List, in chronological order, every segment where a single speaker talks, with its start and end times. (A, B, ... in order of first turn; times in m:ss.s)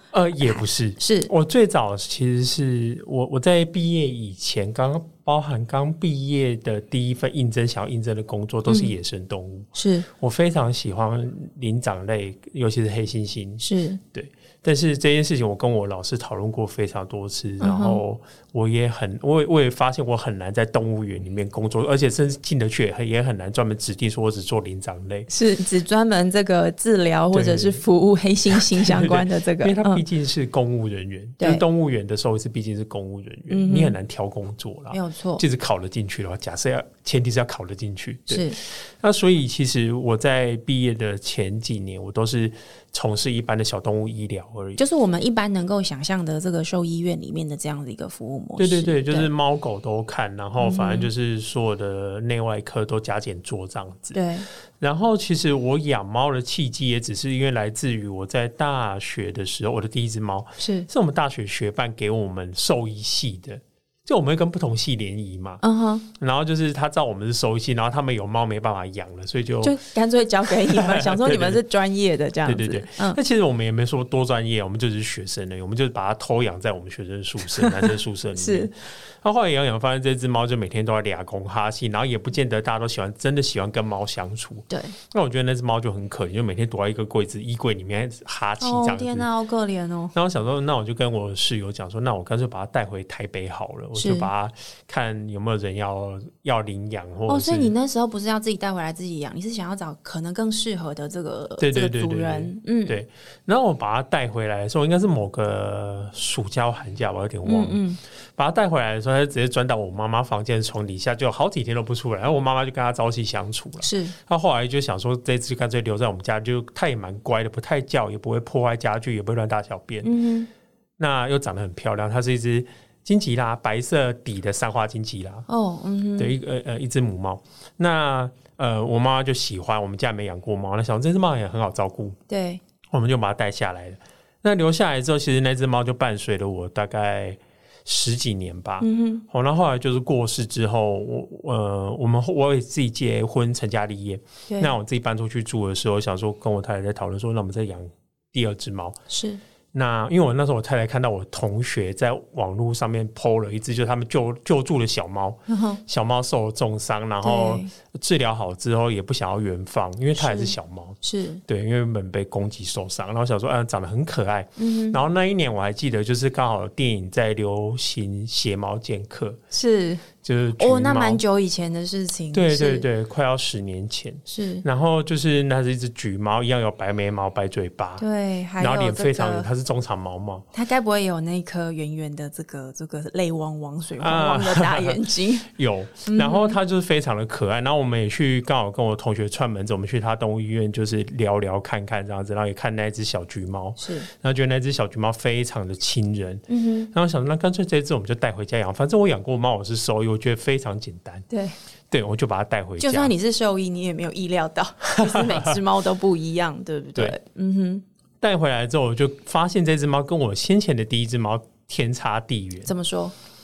0:00.1-0:25.3 A
0:00.4-0:01.3 B
0:09.7-0:10.1 B
0:13.6-0:14.0 B
0:17.6-0:18.0 B
0:25.3-0:30.0 B
0:27.3-0:27.8 A
0:28.5-0:44.8 A
0:33.5-0:34.0 B
0:34.9-0:35.4 B
0:38.3-0:38.6 B
0:44.8-0:49.3 B
0:48.6-0:54.2 A
0:50.6-0:51.1 B
0:54.1-0:54.5 B
0:54.8-1:05.6 A
1:00.6-1:00.9 B
1:05.6-1:06.0 B
1:06.1-1:09.8 A
1:09.6-1:13.2 B
1:10.5-1:11.6 A
1:12.4-1:29.3 A
1:17.5-1:18.7 B
1:24.7-1:25.0 B
1:28.6-1:30.1 B
1:30.1-1:37.7 A
1:33.9-1:34.3 B
1:37.3-1:43.0 B
1:41.6-1:47.8 A
1:47.4-1:48.0 B
1:48.4-2:00.1 A
1:53.8-1:54.1 B
2:00.0-2:00.5 B
2:01.0-2:05.4 A
2:05.5-2:06.3 B
2:06.2-2:12.2 A
2:12.3-2:12.6 B
2:12.9-2:29.0 A
2:18.8-2:19.2 B
2:24.5-2:24.7 B
2:29.1-2:29.4 B
2:29.7-2:49.4 A
2:35.5-2:35.8 B
2:37.2-2:37.7 B
2:40.2-2:41.4 B
2:44.6-2:45.0 B
2:49.5-2:50.0 B
2:50.2-2:51.2 A
2:50.6-2:52.8 B
2:52.3-2:58.0 A
2:54.3-2:54.6 B
2:58.0-2:59.5 B
2:58.6-3:00.4 A
3:00.5-3:05.5 B
3:04.0-3:21.2 A
3:06.0-3:06.6 B
3:13.8-3:14.1 B
3:16.5-3:16.9 B
3:21.3-3:21.5 B
3:21.9-3:23.1 A
3:22.8-3:27.8 B
3:24.9-3:25.6 A
3:28.2-3:32.7 A
3:32.6-3:33.1 B